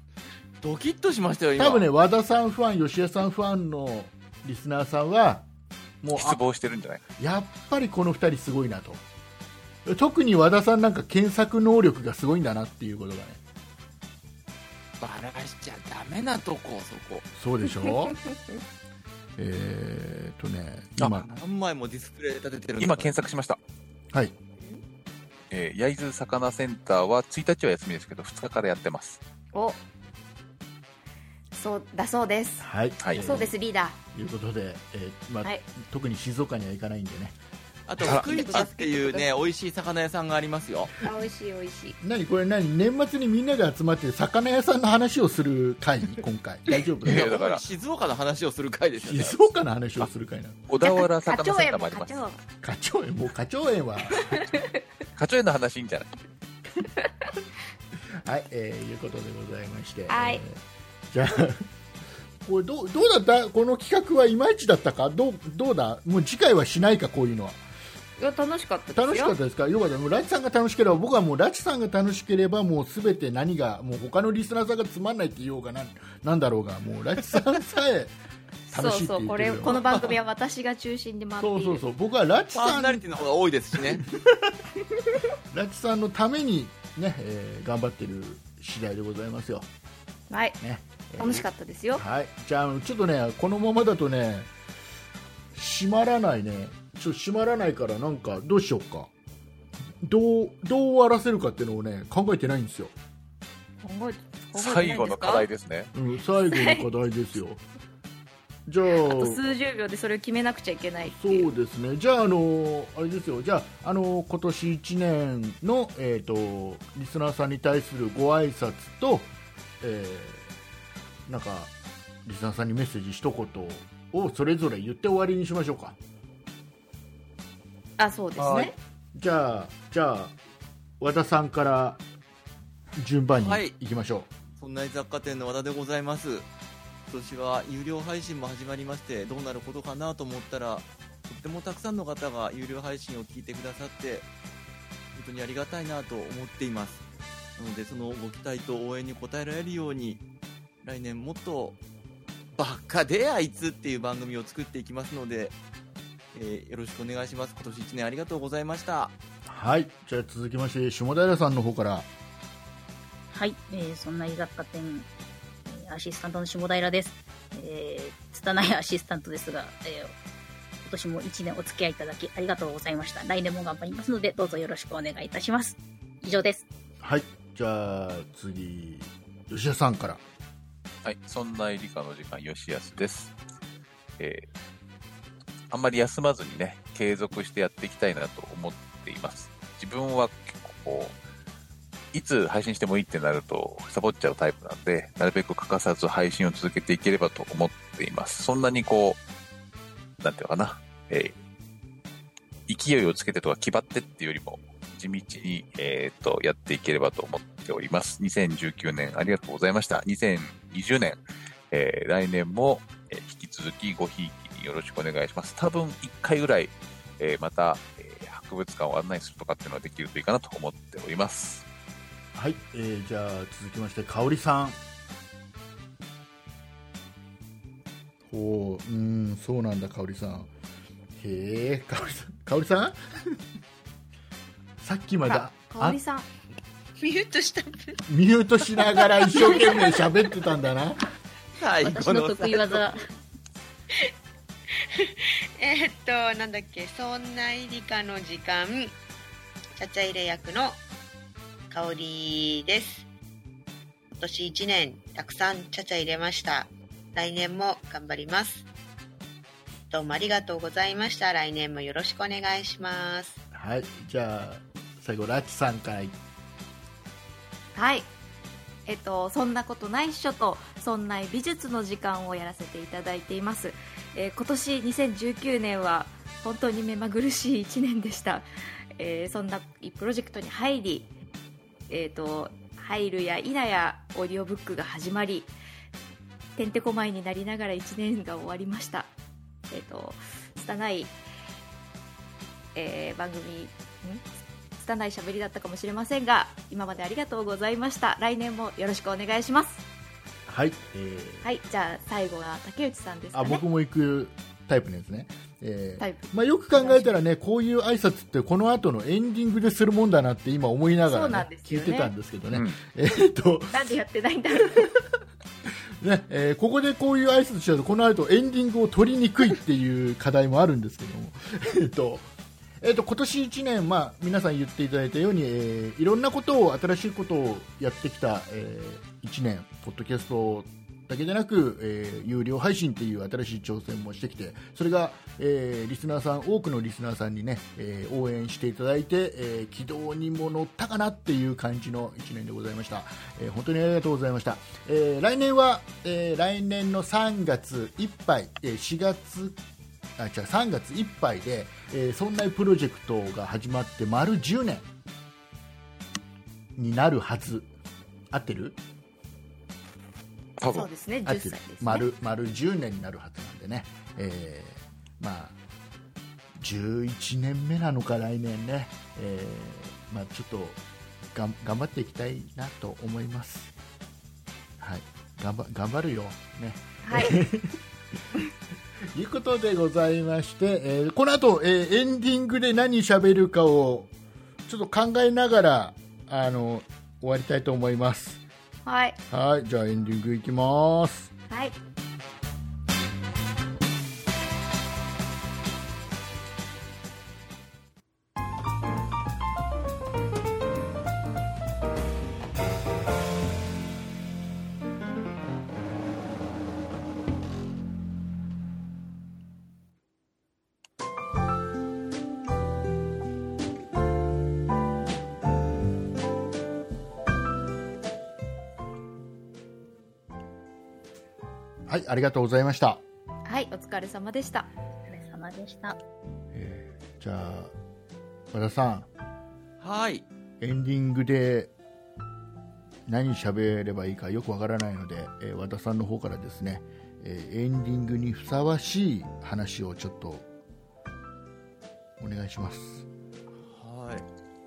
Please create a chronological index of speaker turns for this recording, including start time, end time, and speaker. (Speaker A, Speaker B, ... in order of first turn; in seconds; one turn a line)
Speaker A: 0.6-1.9
Speaker B: 1.6-5.5
Speaker B: 6.0-6.4
Speaker C: 6.1-7.0
Speaker B: 7.2-9.0
Speaker B: 9.8-13.4
Speaker A: 15.0-17.3
Speaker B: 17.3-18.2
Speaker B: 19.4-21.2
Speaker A: 21.1-23.2
Speaker C: 22.8-23.6
Speaker C: 25.5-29.2
Speaker D: 29.5-29.8
Speaker D: 31.5-34.0
Speaker B: 32.6-33.5
Speaker B: 34.1-37.4
Speaker A: 37.9-40.9
Speaker D: 38.0-39.3
Speaker D: 41.0-42.0
Speaker B: 42.0-47.4
Speaker C: 47.0-47.6
Speaker A: 47.0-49.4
Speaker B: 49.0-50.6
Speaker C: 50.7-52.2
Speaker D: 50.8-52.4
Speaker B: 52.6-54.5
Speaker D: 54.2-54.7
Speaker C: 55.1-56.1
Speaker B: 58.2-61.7
Speaker D: 60.1-60.4
Speaker B: 62.4-67.6
Speaker D: 68.2-69.4
Speaker B: 68.9-78.1
Speaker D: 78.7-81.8
Speaker B: 78.7-80.1
Speaker B: 81.4-83.1
Speaker A: 82.5-84.0
Speaker B: 83.8-84.6
Speaker B: 85.5-89.7
Speaker D: 90.3-90.6
Speaker B: 90.6-94.5
Speaker D: 91.2-92.0
Speaker B: 95.5-99.1
Speaker B: 100.0-102.9
Speaker D: 103.8-105.5
Speaker C: 104.5-105.9
Speaker B: 105.9-107.6
Speaker D: 106.5-106.9
Speaker B: 108.7-109.4
Speaker D: 108.9-111.5
Speaker B: 111.0-120.5
Speaker B: 121.2-121.7
Speaker B: 122.2-126.0
Speaker D: 128.0-128.7
Speaker B: 128.4-130.3
Speaker B: 131.0-132.0
Speaker B: 132.9-134.3
Speaker A: 133.4-133.7
Speaker A: 134.5-136.5
Speaker A: 137.1-144.3
Speaker A: 145.1-147.0
Speaker A: 147.6-150.2
Speaker A: 150.8-151.8
Speaker A: 152.5-155.6
Speaker A: 156.3-159.1
Speaker B: 159.4-162.1
Speaker E: 163.3-165.1
Speaker E: 165.7-170.2
Speaker E: 170.8-176.7
Speaker B: 177.0-180.2
Speaker C: 181.0-183.3
Speaker C: 184.2-184.4
Speaker C: 185.7-191.2
Speaker C: 192.1-199.2
Speaker C: 200.2-201.3
Speaker C: 202.7-211.2
Speaker C: 211.7-221.6
Speaker B: 222.3-224.8
Speaker B: 228.3-230.5
Speaker B: 231.1-233.4
Speaker B: 234.8-236.0
Speaker D: 235.2-236.3
Speaker F: 237.0-238.0
Speaker B: 238.1-241.0
Speaker F: 238.8-240.1
Speaker A: 241.6-242.8
Speaker E: 241.8-243.1
Speaker F: 245.0-248.9
Speaker F: 249.8-250.8
Speaker F: 251.7-253.1
Speaker F: 254.2-258.7
Speaker F: 259.9-263.4
Speaker B: 263.5-266.1
Speaker D: 267.7-268.1
Speaker D: 268.9-278.4
Speaker D: 279.0-281.1
Speaker D: 281.9-285.5
Speaker D: 286.6-289.1
Speaker D: 289.7-291.1
Speaker D: 292.7-294.2
Speaker D: 294.8-299.8
Speaker B: 300.5-301.4
Speaker D: 301.4-303.6
Speaker B: 303.3-313.8
Speaker D: 306.0-307.2
Speaker D: 311.1-312.1
Speaker C: 312.5-312.8
Speaker D: 313.7-314.9
Speaker B: 316.0-322.3
Speaker B: 322.8-349.6
Speaker B: 350.2-354.9
Speaker B: 356.8-357.7
Speaker B: 358.3-358.8
Speaker C: 360.6-360.9
Speaker D: 360.7-362.1
Speaker B: 361.2-365.6
Speaker B: 366.6-370.8
Speaker B: 371.3-373.7
Speaker B: 374.8-377.8
Speaker D: 377.0-377.4
Speaker B: 379.1-384.1
Speaker B: 384.7-388.4
Speaker D: 388.8-389.2
Speaker B: 389.3-391.3
Speaker D: 391.5-391.7
Speaker B: 421.9-423.0
Speaker D: 423.4-424.7
Speaker E: 425.1-426.0
Speaker B: 426.5-427.7
Speaker B: 428.5-429.1
Speaker A: 429.8-430.2
Speaker B: 430.6-431.7
Speaker B: 433.1-440.4
Speaker B: 442.2-443.1
Speaker A: 443.5-444.3